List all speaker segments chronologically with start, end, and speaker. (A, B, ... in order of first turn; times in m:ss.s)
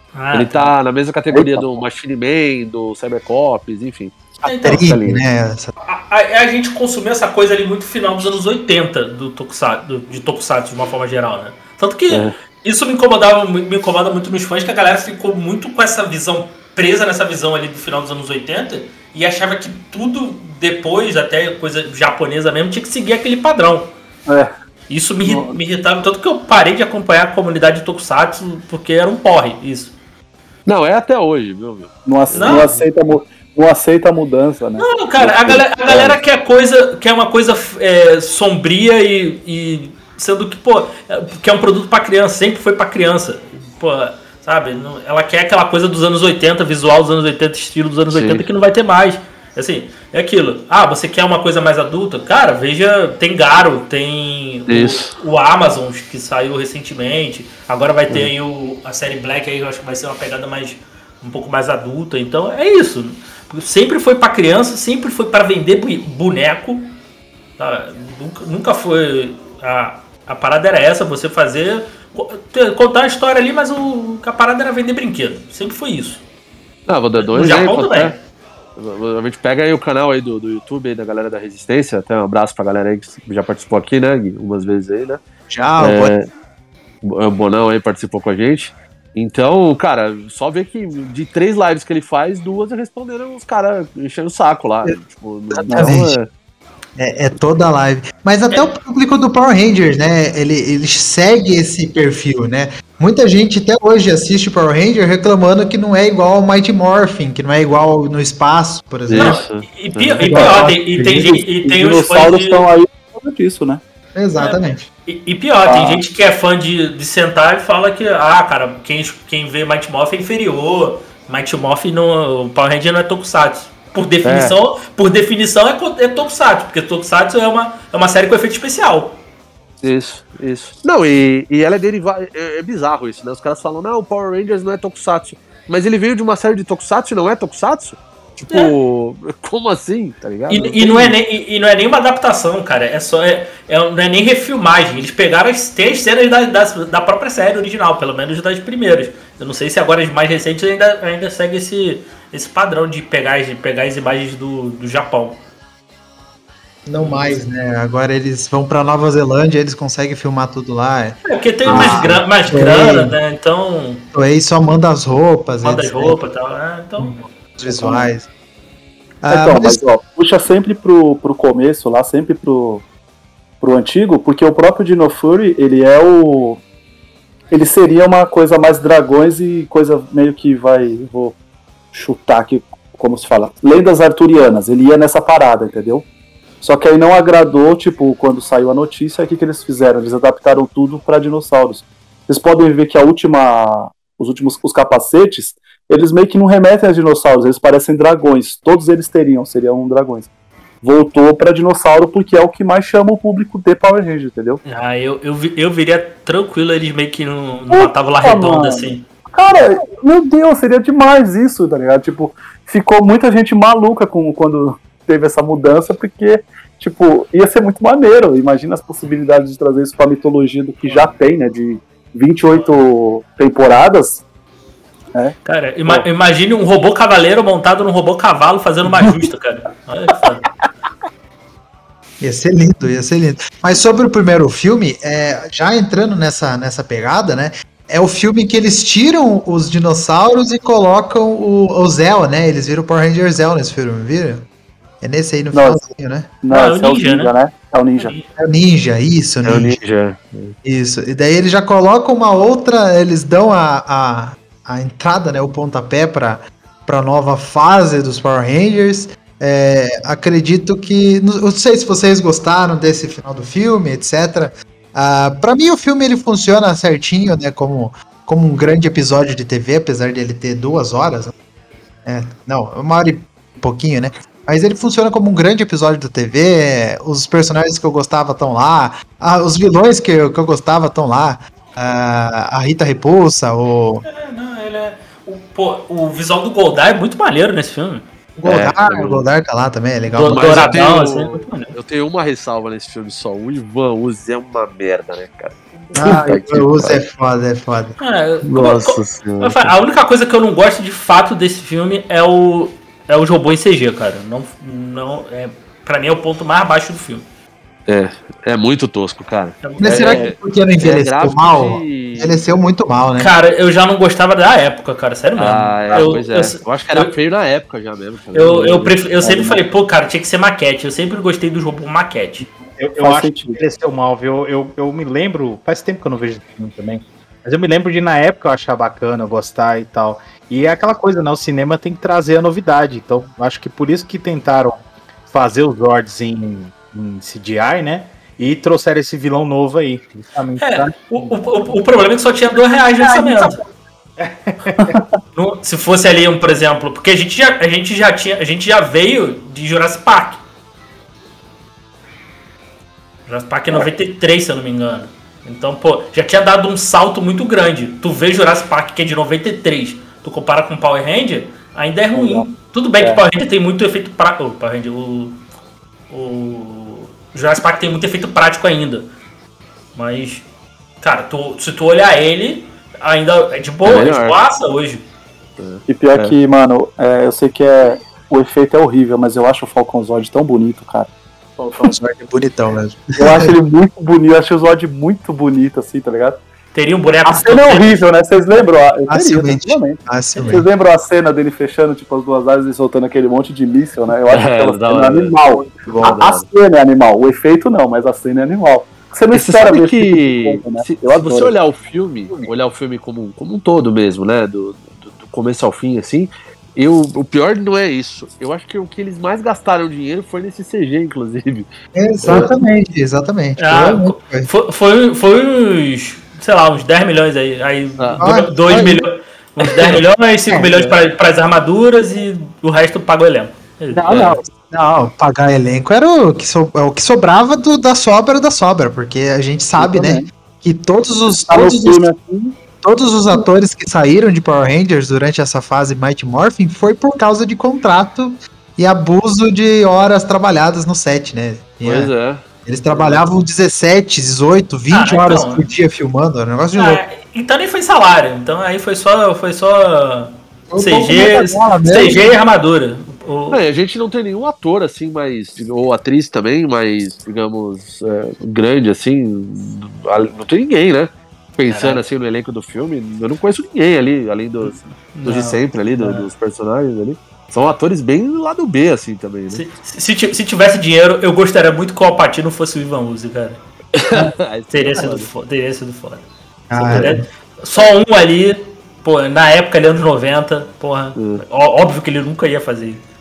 0:00.1-0:00.7 A
0:00.3-0:05.2 B
0:01.3-0:01.7 C
0:04.4-0:05.7 D
0:04.4-0:04.8 A
0:05.8-0:23.9 A
0:12.1-0:12.3 B
0:24.9-0:29.9 A
0:25.2-0:25.5 C
0:30.6-0:32.8 B
0:32.0-0:34.9 C
0:32.3-0:32.7 A
0:34.8-1:06.9 A
0:35.2-0:36.2 B
0:48.1-0:48.4 B
0:54.7-0:55.1 B
1:07.6-1:16.2 A
1:16.9-1:18.2 B
1:17.2-1:18.1 A
1:18.8-1:25.2 B
1:25.5-1:26.1 D
1:25.8-1:26.3 B
1:27.0-1:36.3 B
1:35.5-1:36.2 D
1:35.7-1:36.0 C
1:37.0-1:49.4 D
1:49.1-1:50.4 B
1:49.2-1:52.6 A
1:50.2-1:51.3 D
1:50.3-1:53.8 C
1:54.1-1:54.8 D
1:54.4-2:09.2 A
1:55.6-1:56.0 C
2:04.2-2:04.6 B
2:09.8-2:21.1 B
2:20.5-2:35.4 A
2:36.8-2:43.2 D
2:37.0-2:37.4 A
2:41.2-2:44.0 A
2:44.1-2:46.2 D
2:45.6-2:47.2 A
2:47.0-2:48.3 D
2:47.7-2:48.1 C
2:49.2-2:49.8 D
2:49.3-2:52.8 C
2:53.6-2:56.6 C
2:57.5-3:01.4 C
3:01.9-3:06.0 C
3:06.6-3:20.3 C
3:20.8-3:24.6 C
3:24.6-3:29.0 A
3:27.7-3:44.2 C
3:40.8-3:41.1 A
3:45.4-3:50.4 A
3:52.2-4:04.5 D
4:05.0-4:06.3 D
4:05.5-4:05.8 C
4:06.4-4:08.1 C
4:06.5-4:07.3 A
4:08.0-4:08.3 A
4:08.4-4:09.8 D
4:09.4-4:10.5 B
4:10.6-4:31.3 D
4:32.0-4:44.0 D
4:44.0-4:48.0 A
4:48.4-4:50.8 D
4:48.4-4:49.2 B
4:50.1-4:51.7 A
4:50.2-4:57.0 B
4:55.9-4:57.9 D
4:58.0-5:07.2 A
4:58.4-4:59.7 B
5:07.9-5:12.5 B
5:09.6-5:10.2 A
5:09.8-5:13.3 D
5:13.2-5:17.1 A
5:15.4-5:18.9 B
5:18.3-5:22.4 A
5:19.2-5:19.6 C
5:22.8-5:41.7 E
5:23.0-5:23.6 C
5:40.6-5:43.6 A
5:43.1-5:43.6 E
5:44.2-5:45.0 E
5:45.3-5:50.4 A
5:53.3-6:05.4 A
6:02.1-6:02.4 C
6:06.1-6:09.1 A
6:09.9-6:10.4 A
6:11.0-6:15.0 A
6:13.8-6:14.4 B
6:15.6-6:16.3 B
6:15.9-6:21.1 C
6:21.8-6:23.5 D
6:23.2-6:26.4 C
6:26.7-6:28.0 A
6:27.2-6:41.6 C
6:29.1-6:30.6 D
6:34.3-6:36.4 B
6:39.3-6:51.7 B
6:51.9-6:54.5 D
6:52.2-6:52.5 B
6:53.6-7:04.4 A
6:58.0-6:59.0 B
6:58.2-6:58.5 D
6:59.7-7:00.0 B
7:03.9-7:12.0 D
7:09.8-7:10.2 C
7:11.5-7:12.6 C
7:12.8-7:22.1 D
7:21.8-7:23.2 B
7:22.6-7:27.0 D
7:24.9-7:25.6 A
7:26.7-7:33.6 A
7:30.7-7:32.4 D
7:33.5-7:49.6 B
7:41.7-7:42.0 A
7:44.6-7:46.3 A
7:49.5-7:53.6 A
7:53.9-7:55.3 B
7:54.1-7:56.2 A
7:56.7-7:57.2 D
7:56.8-8:03.0 A
7:56.9-7:57.1 B
8:01.2-8:01.4 B